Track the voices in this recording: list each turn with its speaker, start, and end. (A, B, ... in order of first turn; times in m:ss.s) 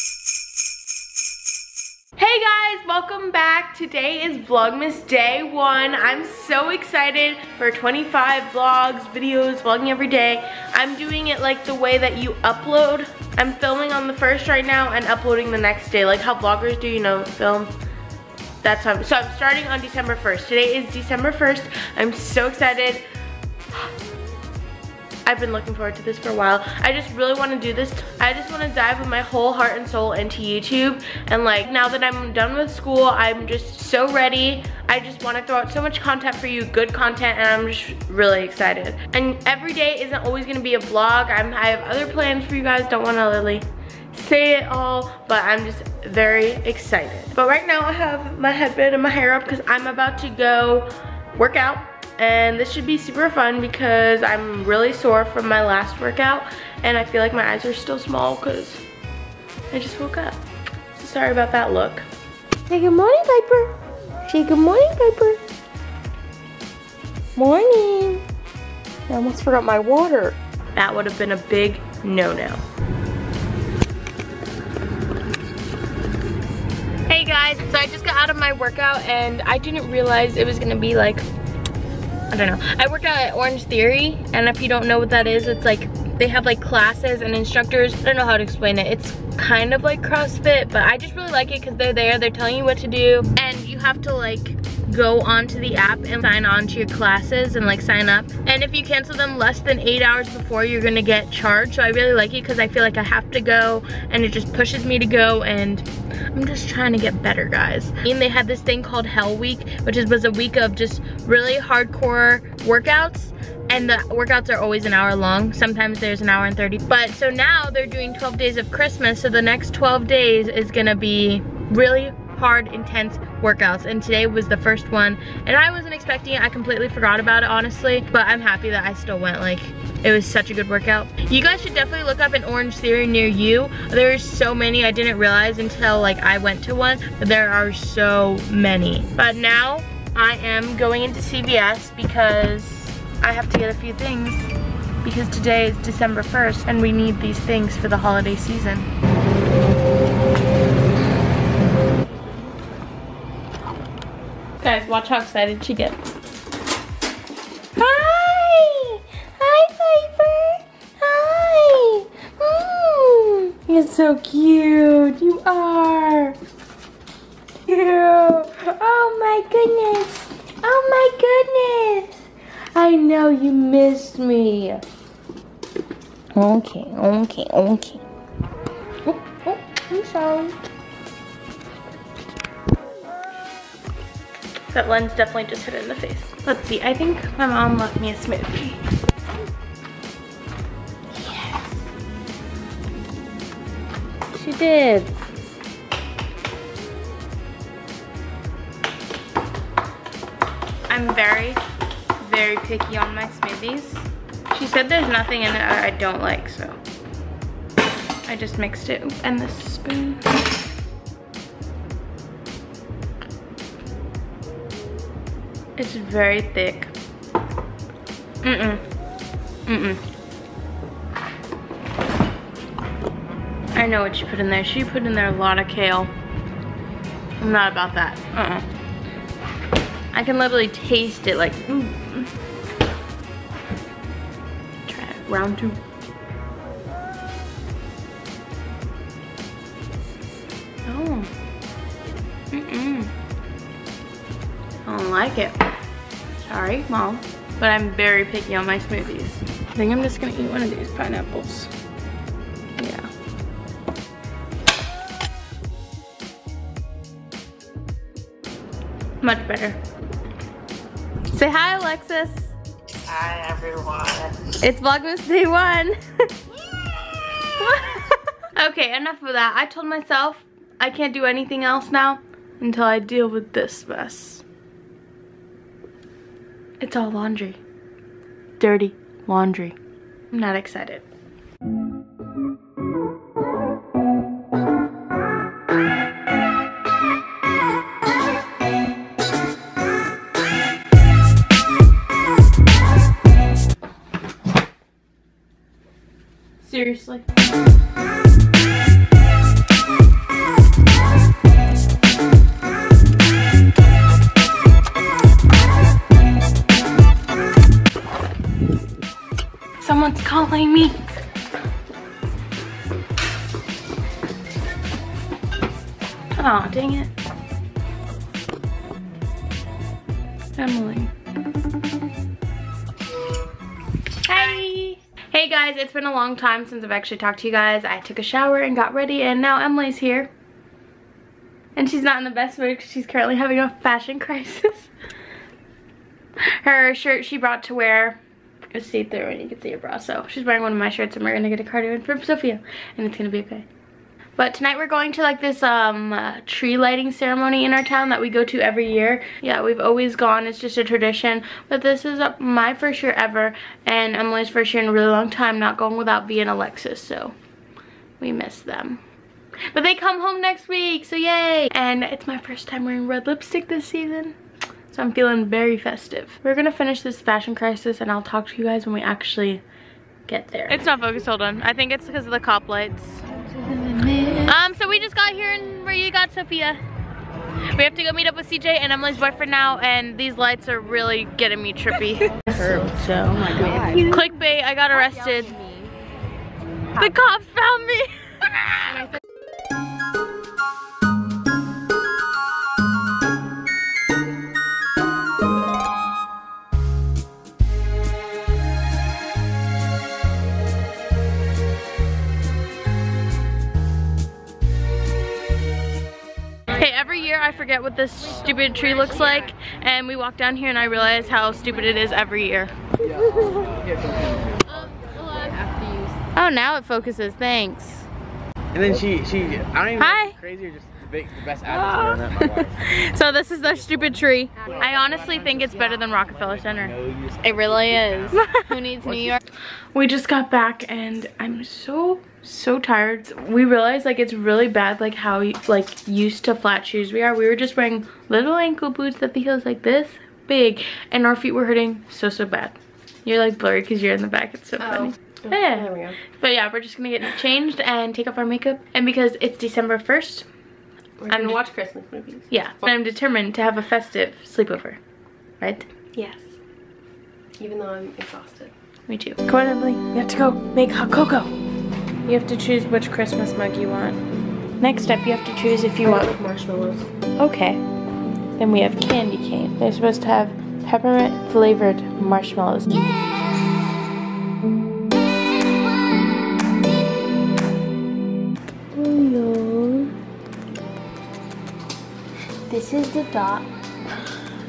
0:02.2-0:17.7 A
0:18.6-0:23.0 A
0:25.3-0:58.8 A
0:59.7-1:00.4 A
1:01.0-1:02.1 A
1:02.7-1:05.4 A
1:07.4-1:08.2 A
1:09.1-1:12.6 A
1:17.1-1:21.3 A
1:22.3-2:24.5 A
2:25.0-2:28.9 A
2:34.6-2:36.0 A
2:37.8-2:46.4 A
2:47.7-2:54.8 A
2:56.3-2:58.0 A
2:59.0-3:00.6 A
3:04.7-3:08.8 A
3:11.2-3:11.8 A
3:14.3-3:15.2 A
3:20.9-3:21.6 A
3:22.2-3:26.8 A
3:28.3-3:30.4 A
3:35.8-3:36.9 A
3:38.4-3:38.8 A
3:39.7-3:40.0 A
3:43.8-3:46.1 A
3:47.4-3:48.7 A
3:50.1-3:52.3 A
3:54.9-3:55.8 A
4:00.9-4:01.3 A
4:02.5-4:03.1 A
4:04.8-4:05.6 A
4:06.4-4:11.7 A
4:12.8-4:13.1 A
4:19.2-4:19.8 A
4:21.3-4:22.6 A
4:23.1-4:26.0 A
4:27.4-4:34.4 A
4:36.8-4:37.6 A
4:38.6-4:39.8 A
4:40.3-4:41.0 A
4:56.6-4:57.3 A
5:09.8-5:11.2 A
5:16.4-5:17.1 A
5:20.6-5:21.1 A
5:24.2-5:30.3 A
5:31.8-5:34.9 A
5:36.6-5:38.2 A
5:38.7-5:43.7 A
5:44.4-5:57.4 A
5:58.2-5:59.0 A
5:59.7-6:04.4 A
6:04.9-6:09.6 A
6:10.3-6:13.2 A
6:14.1-6:14.4 B
6:14.4-6:16.8 A
6:17.7-6:25.6 A
6:23.4-6:24.0 C
6:23.6-6:24.0 B
6:27.0-6:29.0 A
6:46.7-6:52.8 A
6:53.0-6:55.6 D
6:53.3-6:53.6 A
6:55.2-6:56.1 B
6:56.4-6:58.1 A
6:58.8-7:04.2 D
7:00.0-7:00.4 A
7:01.7-7:06.9 A
7:04.7-7:05.3 D
7:06.2-7:08.4 D
7:07.4-7:09.4 B
7:08.4-7:08.6 A
7:09.9-7:30.5 A
7:24.8-7:26.2 C
7:31.2-7:32.5 C
7:31.3-7:31.6 A
7:32.5-7:35.0 A
7:35.6-7:35.9 A
7:36.2-7:36.4 C
7:37.6-7:38.7 C
7:39.1-7:41.5 A
7:42.2-7:44.2 A
7:44.8-7:46.3 A
7:46.0-7:47.1 C
7:47.4-7:47.8 A
7:48.6-7:53.0 A
7:58.9-8:00.1 A
8:02.7-8:03.7 A